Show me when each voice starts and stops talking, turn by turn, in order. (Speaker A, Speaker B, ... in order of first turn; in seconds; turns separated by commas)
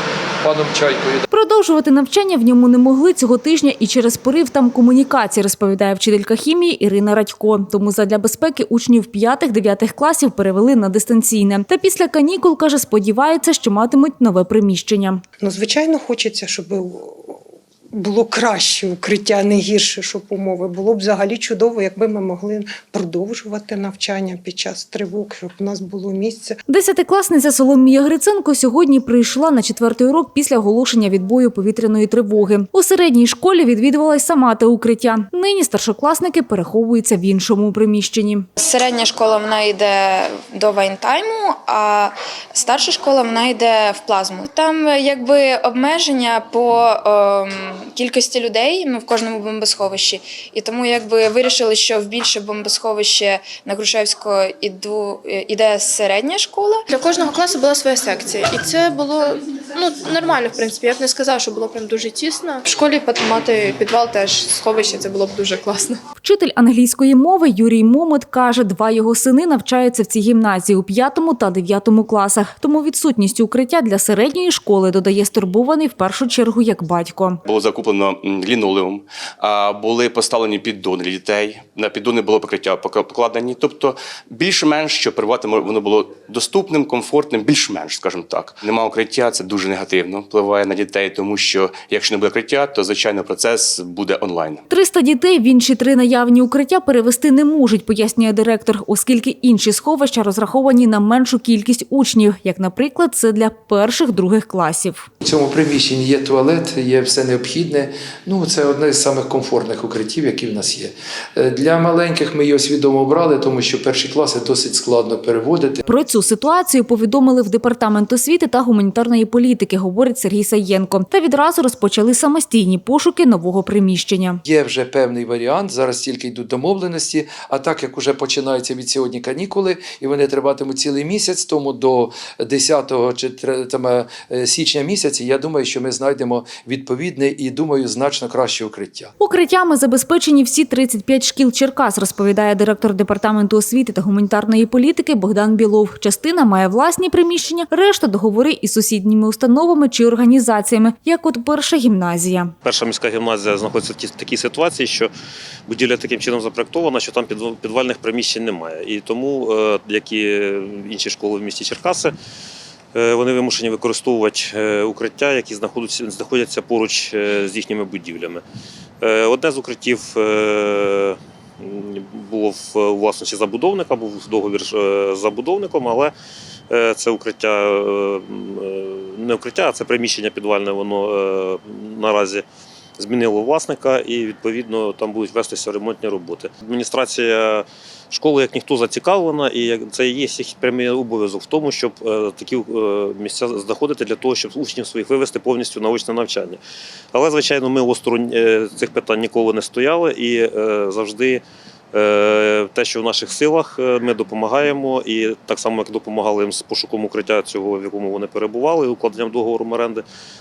Speaker A: 0.4-1.3, Speaker B: 1.3-15.2, Speaker C: 15.4-17.4, Speaker C: 17.9-26.6, Speaker B: 26.7-38.5, Speaker D: 38.6-56.8, Speaker E: 56.9-66.0, Speaker B: 66.2-77.4, Speaker F: 77.4-94.6, Speaker B: 94.7-105.1, Speaker A: 105.2-115.8, Speaker B: 115.8-124.4, Speaker A: 124.4-139.1, Speaker B: 139.2-152.5, Speaker G: 152.6-155.1, Speaker G: 155.7-162.1, Speaker G: 162.9-168.4, Speaker G: 169.0-176.1, Speaker G: 176.7-182.4, Speaker G: 183.0-196.6, Speaker G: 197.1-210.0